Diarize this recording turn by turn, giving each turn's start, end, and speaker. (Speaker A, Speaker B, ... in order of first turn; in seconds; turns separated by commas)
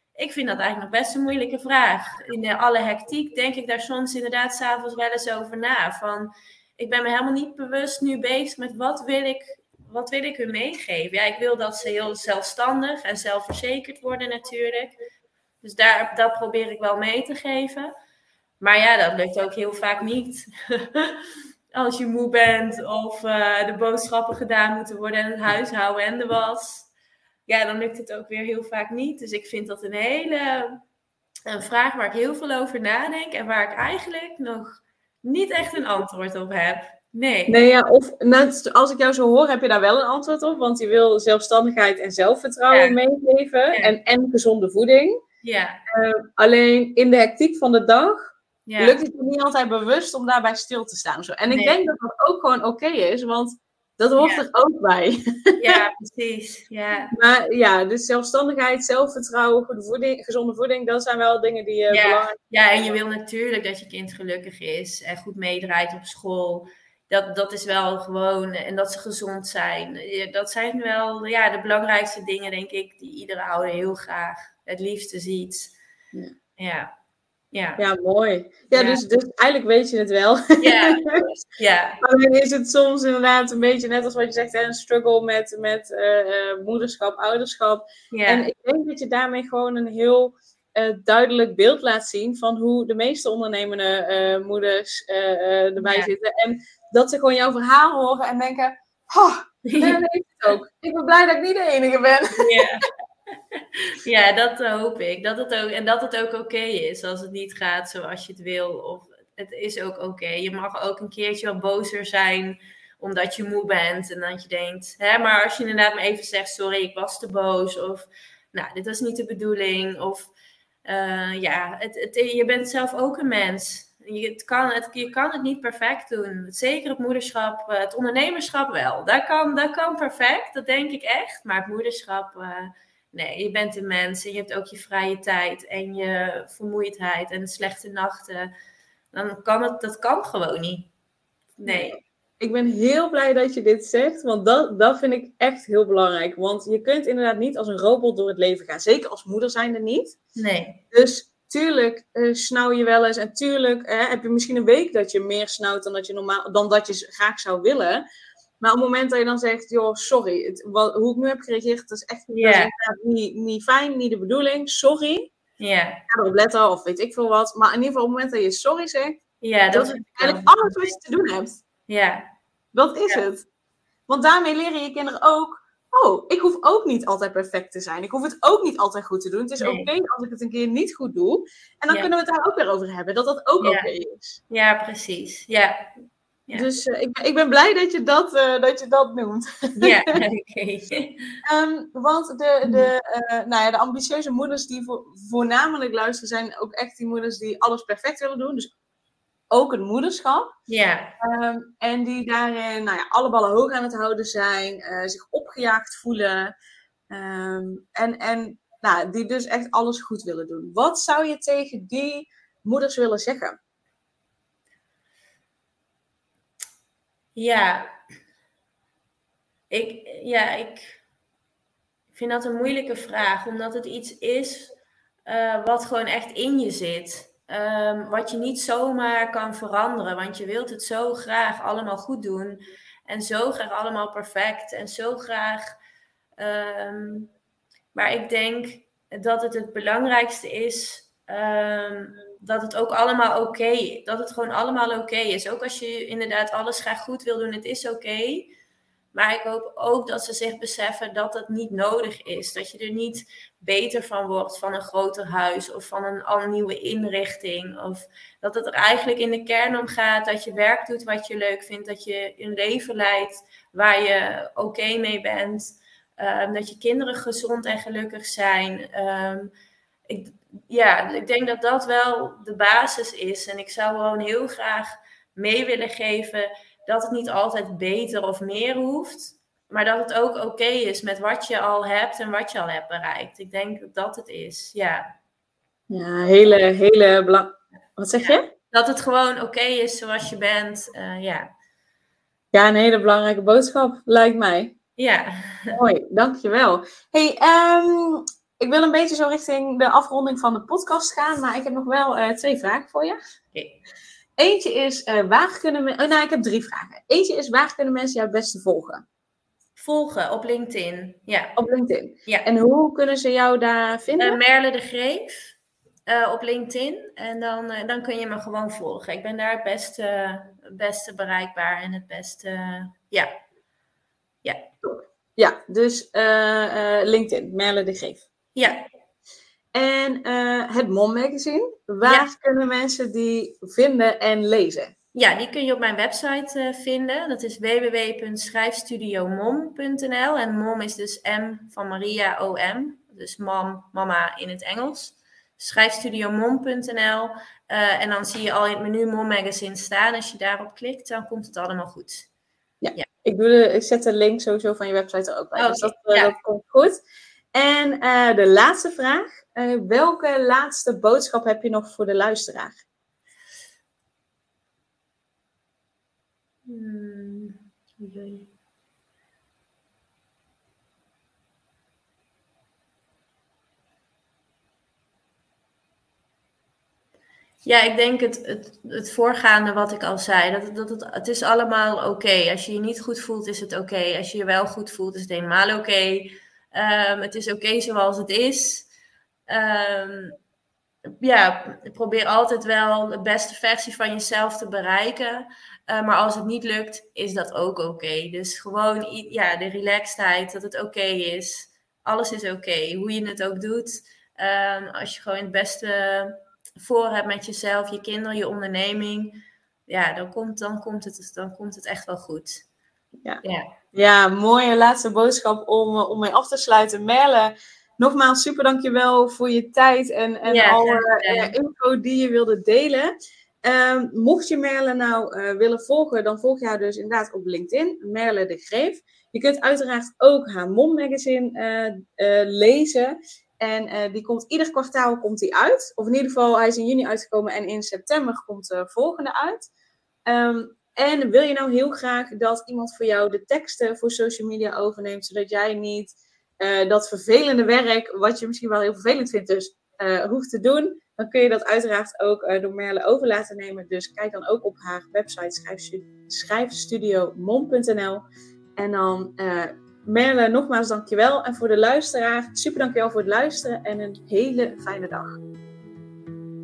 Speaker A: 0.1-15.0, Speaker A: 15.6-17.9, Speaker A: 18.6-21.2, Speaker A: 21.7-26.9, Speaker A: 27.5-30.8, Speaker A: 31.5-37.6, Speaker B: 37.5-45.2, Speaker A: 42.7-43.0, Speaker A: 45.4-45.8, Speaker B: 45.9-55.8, Speaker A: 48.7-49.0, Speaker A: 51.5-51.8, Speaker A: 54.2-54.5, Speaker A: 55.6-57.1, Speaker B: 57.1-62.9, Speaker A: 61.9-75.7, Speaker A: 76.6-76.9, Speaker A: 77.5-77.8, Speaker B: 77.8-81.2, Speaker A: 78.7-79.0, Speaker A: 80.6-82.0, Speaker B: 82.0-102.6, Speaker A: 88.1-88.5, Speaker A: 95.8-96.1, Speaker A: 99.6-100.0, Speaker A: 102.4-102.8, Speaker A: 103.5-120.3, Speaker A: 120.8-138.5, Speaker A: 139.1-140.9, Speaker A: 141.6-142.0, Speaker B: 141.6-150.2, Speaker A: 150.3-150.8, Speaker B: 150.9-158.0, Speaker B: 158.6-165.3, Speaker A: 162.3-162.7, Speaker A: 165.6-166.0, Speaker B: 166.1-169.2, Speaker A: 169.4-170.6, Speaker B: 169.7-171.6, Speaker A: 171.9-172.3, Speaker B: 172.7-173.5, Speaker B: 174.1-184.4, Speaker A: 179.6-179.9, Speaker A: 183.6-183.9, Speaker A: 184.5-185.9, Speaker B: 186.5-190.2, Speaker A: 189.8-191.4, Speaker B: 191.4-198.7, Speaker B: 199.5-200.5, Speaker A: 200.7-201.1, Speaker B: 201.2-206.5, Speaker B: 207.1-213.6, Speaker A: 217.3-217.9, Speaker A: 219.7-221.0, Speaker A: 222.1-224.7, Speaker A: 225.3-235.8, Speaker A: 236.4-237.3, Speaker A: 237.9-248.5, Speaker A: 249.1-269.5, Speaker A: 270.1-285.1, Speaker B: 285.9-288.4, Speaker A: 288.2-291.5, Speaker B: 292.5-294.7, Speaker A: 295.0-295.8, Speaker B: 295.7-303.2, Speaker B: 304.4-309.0, Speaker A: 309.8-311.5, Speaker B: 311.6-314.4, Speaker A: 314.2-323.3, Speaker A: 324.4-324.7, Speaker B: 324.8-328.2, Speaker A: 328.6-328.9, Speaker B: 329.7-334.9, Speaker A: 332.0-332.3, Speaker A: 335.1-352.3, Speaker B: 352.8-357.0, Speaker A: 355.6-356.3, Speaker B: 357.5-362.8, Speaker A: 366.6-368.5, Speaker A: 377.6-388.9, Speaker A: 389.5-390.4, Speaker A: 391.2-412.6, Speaker A: 413.4-413.8, Speaker B: 413.9-439.7, Speaker A: 420.4-421.5, Speaker B: 440.3-458.2, Speaker B: 458.8-465.4